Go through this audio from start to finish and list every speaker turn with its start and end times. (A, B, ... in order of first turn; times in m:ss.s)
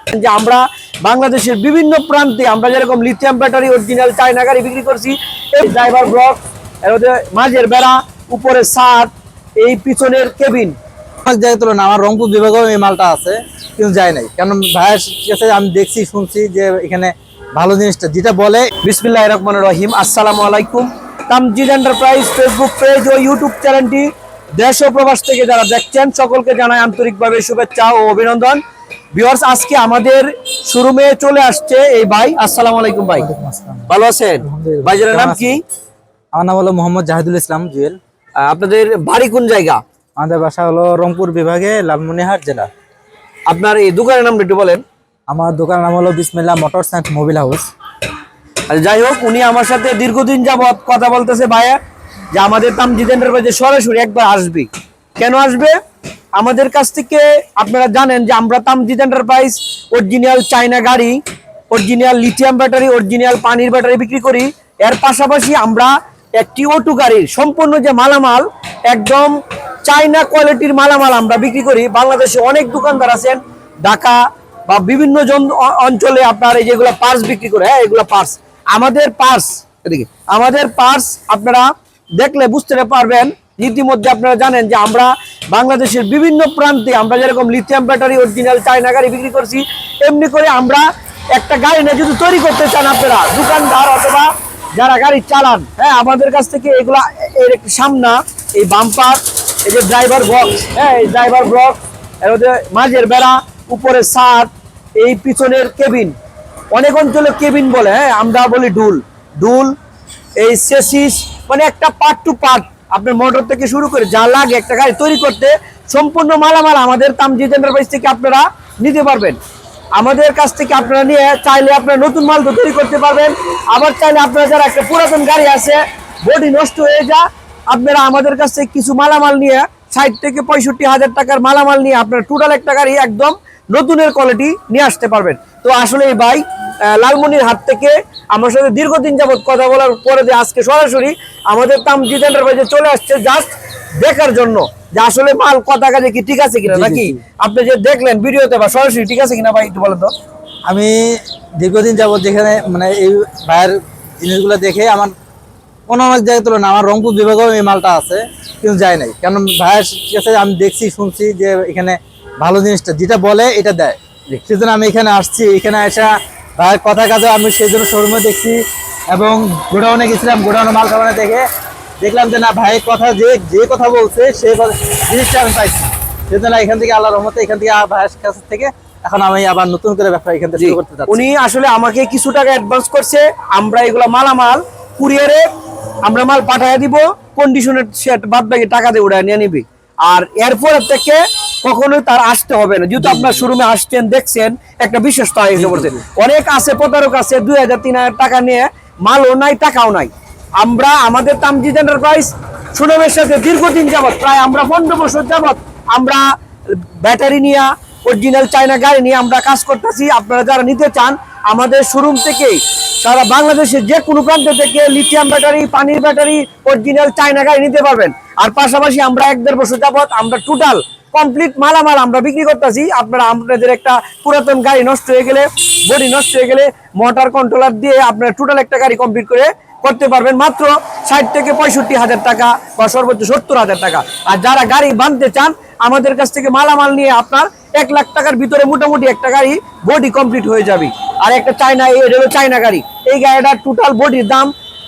0:00.1-0:10.8 A
0:11.2-0:18.7 B
0:18.8-0:28.6 A
0:29.1-0:33.3 A
0:33.2-0:33.9 B
0:33.9-0:35.6 A
0:34.4-0:35.6 B
0:36.3-0:38.0 B
0:38.4-0:39.8 A
0:40.2-0:42.7 B
0:43.5-0:44.8 A
0:45.3-0:47.7 B
0:48.7-0:51.8 A
0:52.3-0:55.8 A
0:56.4-1:01.2 A
1:01.7-1:46.2 A
1:46.7-1:49.8 A
1:50.4-1:59.4 A
2:00.0-2:30.1 A
2:26.7-2:27.2 B
2:30.7-2:35.1 B
2:35.9-2:48.6 B
2:49.1-2:51.5 B
2:52.0-3:01.2 B
3:00.6-3:05.5 A
3:06.0-4:04.5 A
3:13.0-3:13.4 B
3:15.6-3:16.0 B